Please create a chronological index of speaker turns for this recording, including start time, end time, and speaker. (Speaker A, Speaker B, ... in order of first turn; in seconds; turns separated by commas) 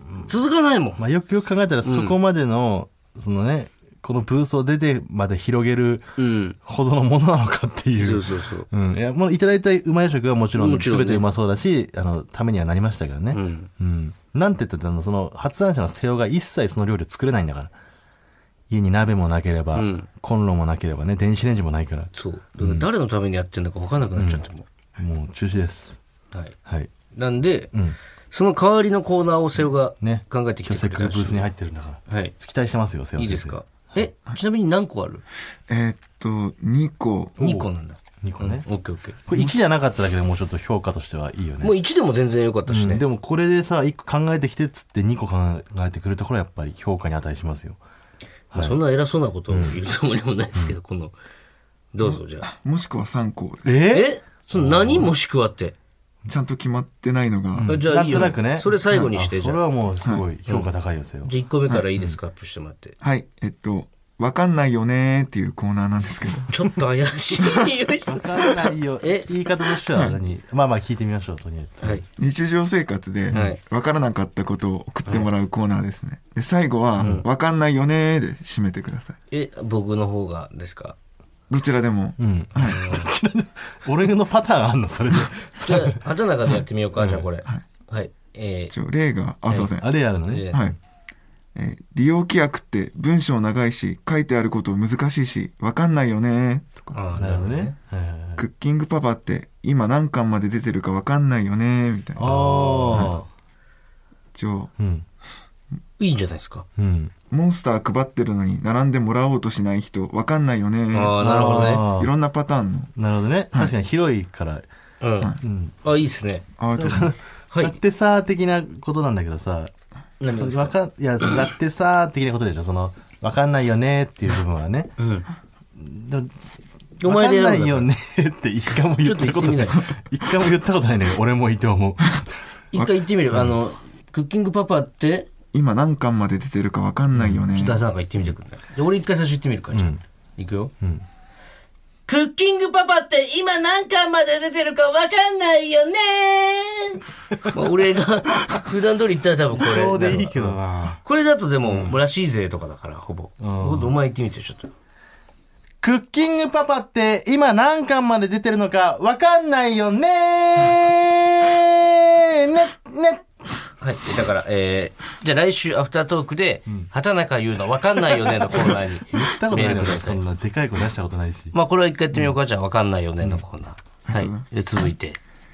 Speaker A: 0.2-1.0, Speaker B: 1.0-6.1, Speaker A: 1.8-2.2, Speaker A: 6.2-6.6, Speaker B: 6.6-17.7, Speaker A: 8.0-8.7, Speaker A: 10.6-11.2, Speaker A: 13.3-13.7, Speaker B: 18.7-22.9, Speaker A: 19.8-20.1, Speaker A: 22.1-24.7, Speaker B: 24.2-24.4, Speaker B: 25.0-26.0, Speaker A: 27.1-27.7, Speaker B: 27.7-28.0, Speaker A: 28.3-31.5, Speaker B: 30.0-33.6, Speaker A: 32.1-32.3, Speaker A: 33.2-35.2, Speaker C: 35.7-37.4, Speaker B: 37.4-37.7, Speaker A: 37.4-39.2, Speaker B: 38.2-38.6, Speaker B: 39.3-41.8, Speaker A: 41.6-43.0, Speaker B: 42.7-47.8, Speaker B: 48.5-48.8, Speaker A: 48.5-51.1, Speaker B: 49.5-49.8, Speaker A: 51.9-52.5, Speaker C: 52.0-53.8, Speaker B: 53.6-55.1, Speaker A: 53.9-55.8, Speaker C: 56.3-57.8, Speaker B: 57.5-61.3, Speaker A: 57.7-59.6, Speaker A: 61.2-63.0, Speaker C: 63.0-66.5, Speaker A: 66.5-69.3, Speaker B: 68.1-72.1, Speaker C: 69.9-70.2, Speaker C: 72.2-79.2, Speaker A: 73.3-73.6, Speaker B: 77.0-77.2, Speaker A: 77.0-77.2, Speaker A: 79.3-81.0, Speaker C: 81.5-82.8, Speaker B: 82.2-86.0, Speaker A: 82.6-83.1, Speaker A: 85.6-88.7, Speaker B: 87.0-87.3, Speaker C: 88.7-89.9, Speaker B: 89.6-90.8, Speaker A: 90.3-90.6, Speaker C: 90.5-90.8, Speaker C: 91.5-97.0, Speaker A: 96.9-97.8, Speaker B: 97.2-98.5, Speaker C: 98.4-103.2, Speaker B: 102.2-103.3, Speaker C: 104.3-104.7, Speaker B: 104.8-105.1, Speaker A: 106.0-106.7, Speaker B: 106.8-107.1, Speaker C: 107.3-111.2, Speaker A: 110.9-111.9, Speaker B: 111.2-112.1, Speaker C: 111.8-112.9, Speaker B: 113.0-114.7, Speaker A: 115.0-116.5, Speaker B: 115.4-115.8, Speaker C: 116.6-117.2, Speaker B: 116.8-119.7, Speaker A: 117.5-117.8, Speaker A: 120.2-120.8, Speaker B: 120.3-124.9, Speaker A: 125.0-125.3, Speaker B: 125.8-126.3, Speaker B: 127.0-132.3, Speaker A: 127.0-127.9, Speaker A: 129.0-129.8, Speaker A: 132.7-135.3, Speaker C: 132.8-133.0, Speaker C: 135.5-137.8, Speaker B: 137.1-138.3, Speaker A: 137.5-140.7, Speaker B: 139.7-140.0, Speaker A: 142.1-154.7, Speaker B: 149.5-151.0, Speaker B: 151.6-152.0, Speaker B: 153.4-153.9, Speaker B: 155.8-163.3, Speaker A: 163.8-170.2, Speaker B: 168.4-171.5, Speaker A: 171.5-175.2, Speaker C: 174.1-174.9